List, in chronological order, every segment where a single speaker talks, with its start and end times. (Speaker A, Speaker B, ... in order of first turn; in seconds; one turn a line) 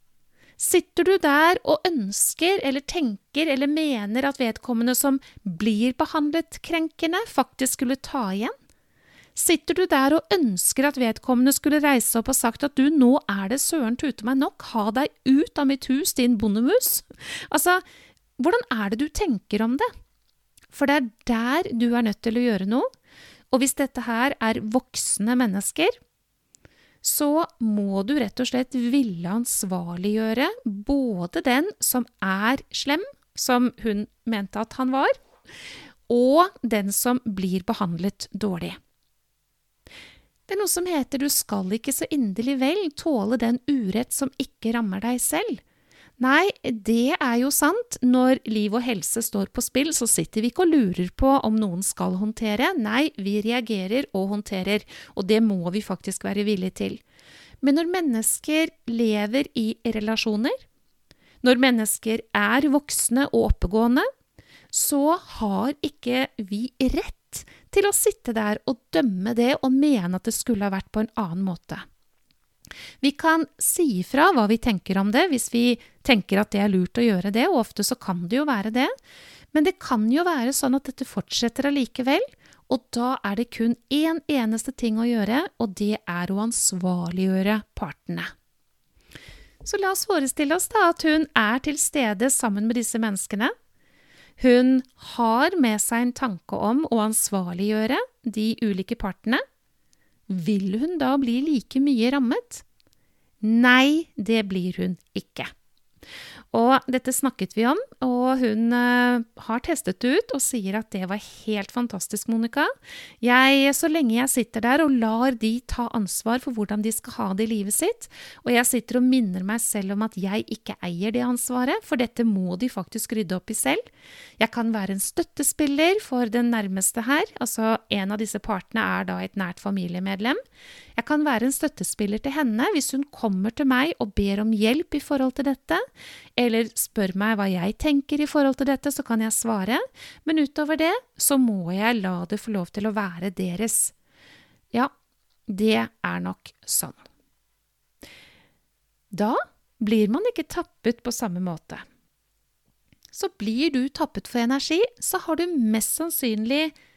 Speaker A: 0.6-8.5
Speaker A: 9.3-17.8
Speaker A: 18.4-19.9
Speaker A: 20.7-22.9
Speaker A: 23.5-25.9
Speaker A: 27.0-35.1
Speaker A: 36.1-38.8
Speaker A: 40.5-45.6
Speaker A: 46.2-57.0
Speaker A: 57.6-60.5
Speaker A: 61.4-64.0
Speaker A: 64.7-71.8
Speaker A: 73.0-78.9
Speaker A: 79.5-88.3
Speaker A: 89.6-93.5
Speaker A: 94.4-99.4
Speaker A: 100.3-102.6
Speaker A: 103.4-105.5
Speaker A: 106.5-123.8
Speaker A: 124.4-130.4
Speaker A: 130.9-135.8
Speaker A: 136.4-143.9
Speaker A: 145.5-147.0
Speaker A: 149.1-151.8
Speaker A: 153.1-156.7